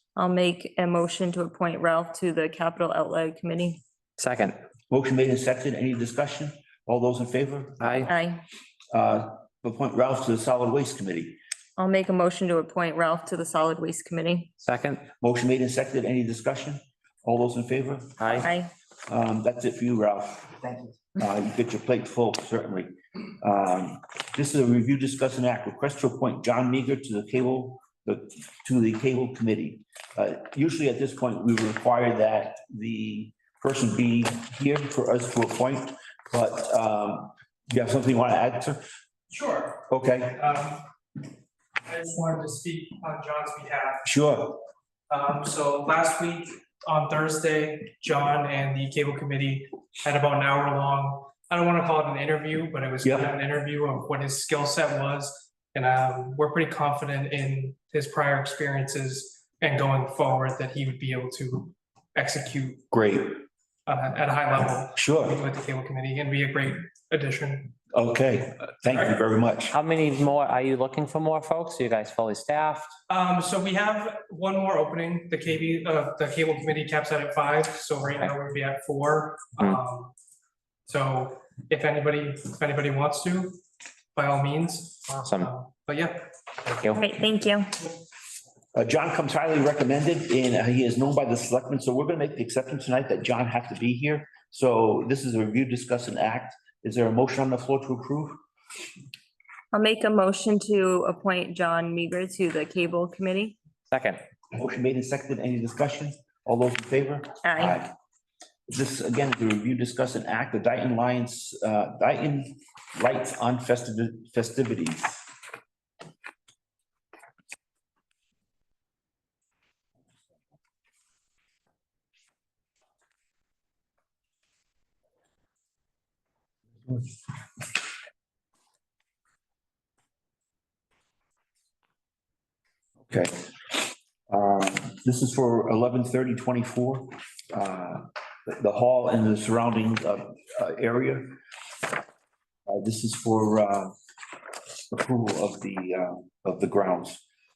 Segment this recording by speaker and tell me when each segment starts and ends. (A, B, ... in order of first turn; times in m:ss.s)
0:00.2-0:03.8 A
0:04.2-0:04.6 B
0:04.9-0:08.1 C
0:07.8-0:08.1 B
0:08.1-0:08.4 A
0:08.9-0:11.4 C
0:11.8-0:14.5 A
0:14.6-0:15.0 B
0:15.2-0:18.4 C
0:18.2-0:18.5 B
0:18.4-0:18.7 A
0:19.1-0:38.8 C
0:39.3-0:40.8 D
0:39.9-0:40.4 C
0:41.8-0:44.0 D
0:44.0-0:44.6 C
0:45.1-1:02.8 D
0:53.0-0:53.3 C
1:02.9-1:03.4 C
1:03.9-1:07.7 D
1:05.0-1:05.4 C
1:07.9-1:09.8 C
1:09.7-1:12.9 B
1:13.1-1:20.1 D
1:20.9-1:23.6 D
1:24.2-1:26.3 D
1:25.2-1:25.5 B
1:27.0-1:27.8 A
1:28.8-1:38.4 C
1:39.7-1:43.6 A
1:43.9-1:44.2 B
1:44.6-1:47.9 C
1:47.4-1:47.8 A
1:48.7-1:55.2 C
2:13.0-2:21.4 C
2:22.7-2:23.9 C
2:24.9-2:27.2 C